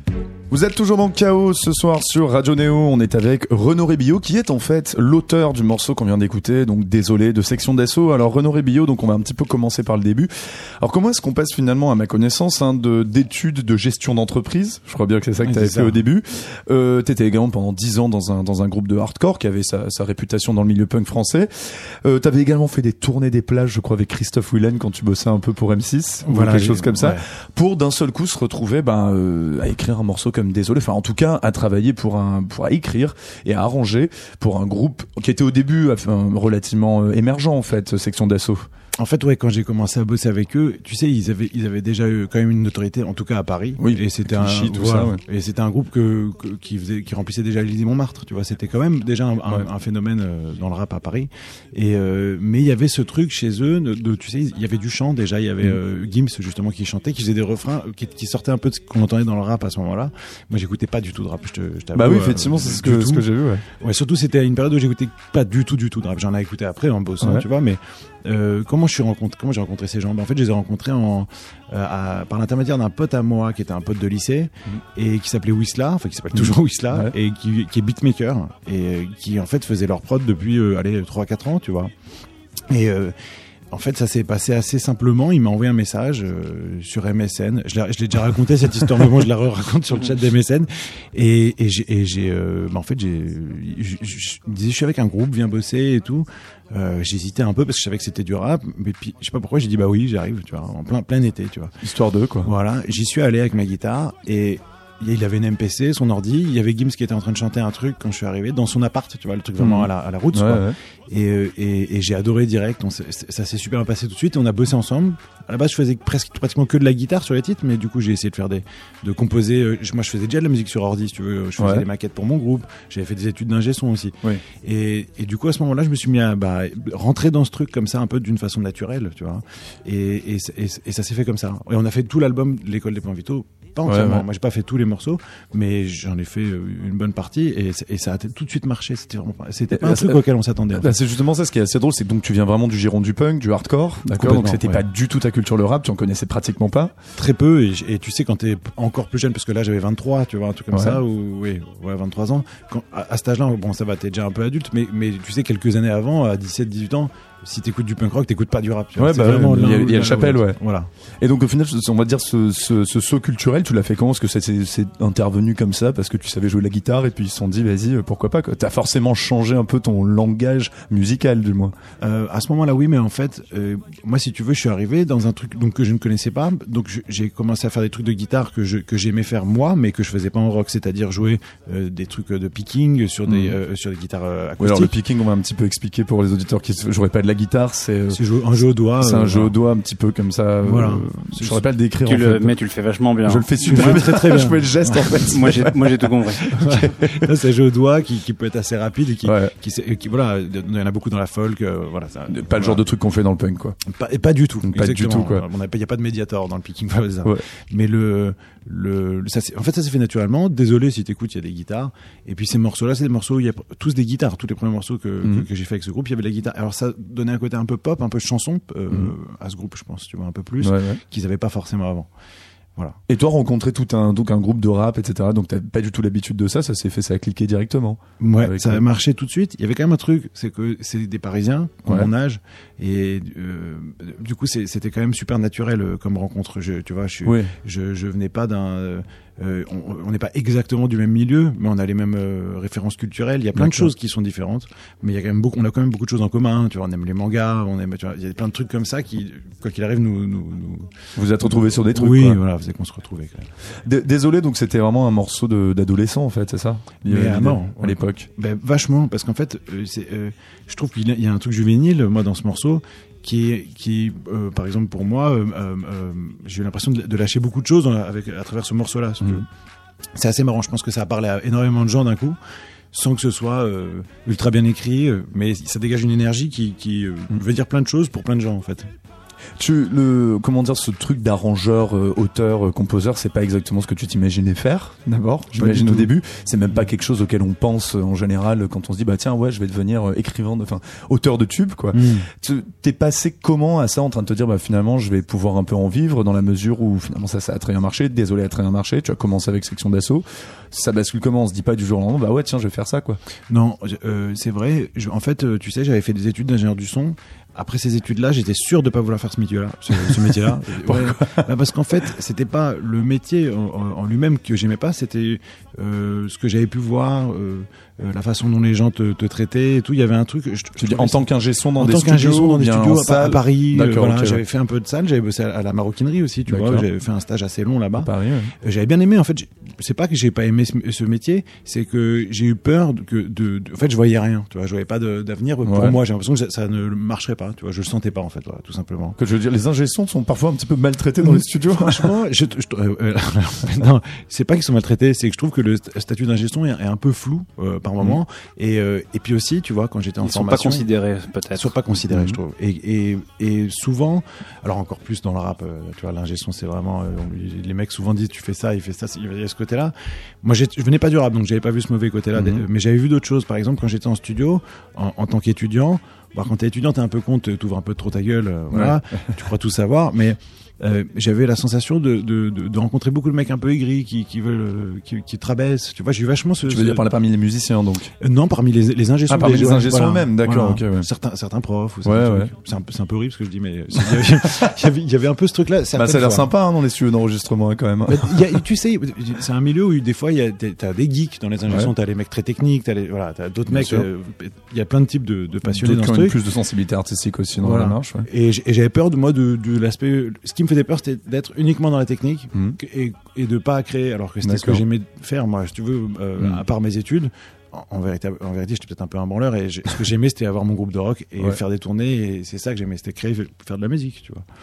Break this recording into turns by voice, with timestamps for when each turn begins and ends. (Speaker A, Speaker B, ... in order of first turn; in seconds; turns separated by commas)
Speaker A: 0.5-38.7, Speaker B: 15.4-16.0, Speaker B: 26.2-27.2, Speaker B: 39.0-63.3, Speaker A: 43.8-45.2, Speaker A: 61.9-63.6, Speaker B: 63.8-81.9, Speaker A: 67.2-67.5, Speaker A: 76.3-77.1, Speaker B: 82.7-83.2, Speaker B: 83.7-101.8, Speaker A: 101.8-102.5, Speaker B: 102.4-140.9, Speaker A: 109.6-110.8, Speaker A: 121.6-121.9, Speaker A: 133.8-134.3, Speaker A: 139.7-146.9, Speaker B: 144.1-144.8, Speaker B: 147.2-160.9, Speaker A: 150.7-151.0, Speaker A: 159.0-160.6, Speaker A: 161.2-171.8, Speaker B: 172.0-184.9, Speaker A: 183.3-183.6, Speaker A: 184.6-188.2, Speaker B: 188.1-189.5, Speaker A: 188.9-192.6, Speaker B: 190.6-191.6, Speaker C: 192.0-194.1, Speaker A: 193.2-197.3, Speaker B: 193.7-195.2, Speaker C: 195.2-196.5, Speaker B: 196.5-202.8, Speaker A: 199.2-199.5, Speaker A: 202.3-203.8, Speaker B: 203.9-222.1, Speaker A: 204.6-205.5, Speaker A: 215.2-215.5, Speaker A: 220.6-221.0, Speaker A: 223.1-228.8, Speaker B: 228.2-253.5, Speaker A: 237.2-237.5, Speaker A: 243.5-243.9, Speaker A: 251.2-252.4, Speaker A: 253.8-258.3, Speaker B: 257.0-269.5, Speaker B: 270.1-272.4, Speaker B: 272.9-278.9, Speaker A: 279.6-303.2, Speaker B: 285.5-286.1, Speaker B: 291.9-292.3, Speaker B: 303.5-339.2, Speaker A: 309.9-311.4, Speaker A: 320.8-324.4, Speaker A: 326.5-326.9, Speaker A: 328.0-328.5, Speaker A: 335.6-336.0, Speaker A: 339.2-342.1, Speaker B: 341.2-350.9, Speaker C: 350.2-351.8, Speaker B: 351.6-377.1, Speaker A: 352.1-352.4, Speaker A: 362.4-362.7, Speaker A: 368.7-369.2, Speaker A: 376.7-378.1, Speaker B: 378.2-386.5, Speaker A: 379.3-381.1, Speaker A: 382.0-382.5, Speaker A: 384.1-384.7, Speaker A: 385.9-388.5, Speaker B: 388.1-396.4, Speaker A: 391.7-391.9, Speaker A: 393.7-394.1, Speaker A: 395.6-398.3, Speaker B: 397.6-414.4, Speaker A: 402.5-402.8, Speaker A: 404.4-404.8